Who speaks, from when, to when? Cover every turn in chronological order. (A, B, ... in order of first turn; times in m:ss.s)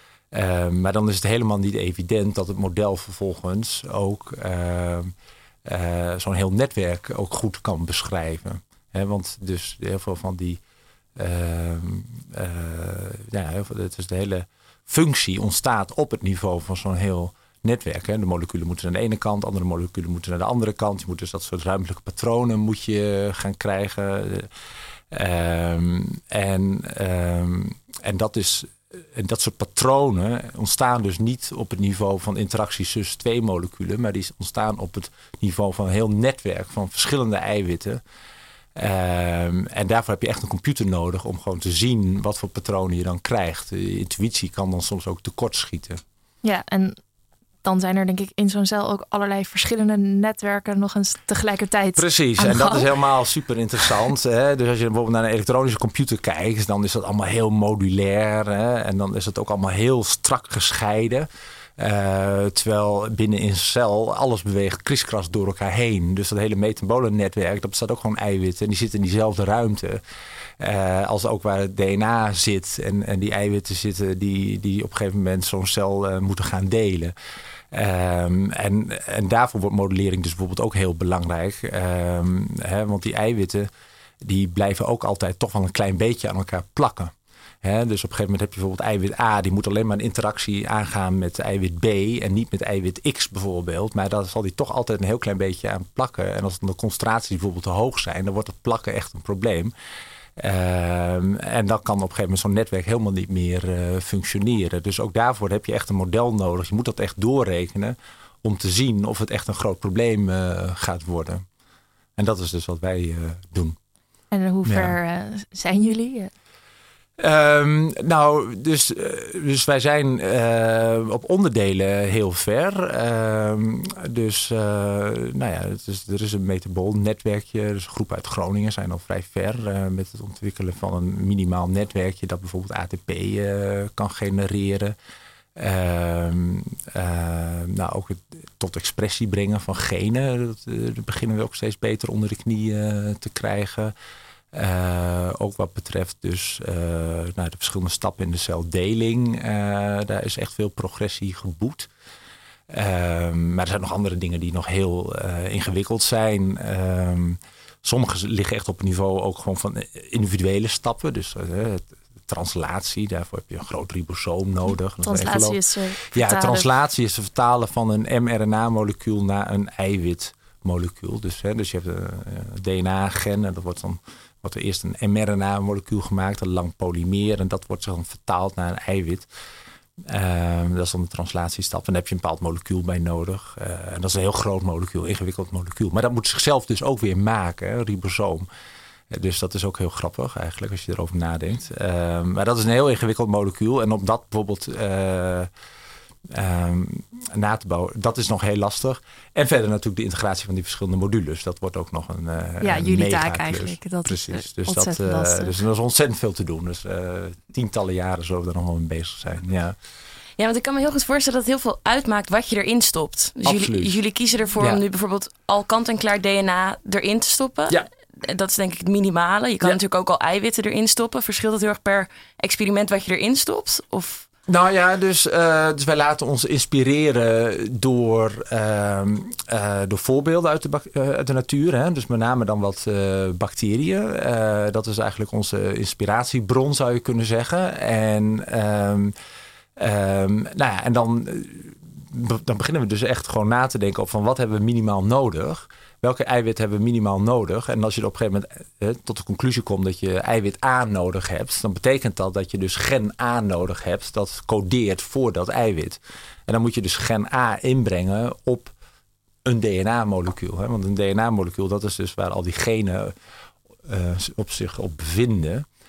0:00.3-0:05.1 A
0:05.6-0:10.6 A
0:11.2-0:24.5 A
0:25.1-0:38.0 A
0:38.8-0:46.0 A
0:46.4-0:47.0 B
0:47.6-0:52.9 B
0:52.0-1:10.0 A
1:10.6-1:17.1 A
1:17.7-1:23.7 A
1:24.2-1:27.1 A
1:27.6-1:39.7 A
1:40.4-1:51.4 A
1:52.2-1:53.8 A
1:54.3-1:56.3 B
1:54.6-1:54.9 A
1:57.2-2:14.9 A
2:15.6-2:23.9 A
2:24.5-2:31.9 A
2:32.7-2:45.6 A
2:45.0-2:46.7 B
2:46.1-2:59.3 A
3:00.1-3:08.5 A
3:09.1-3:15.5 A
3:16.3-3:29.8 A
3:22.6-3:25.6 B
3:30.4-3:44.3 C
3:33.4-3:34.0 A
3:44.5-3:59.1 A
3:59.8-4:18.7 A
4:19.4-4:23.1 A
4:23.8-4:25.6 A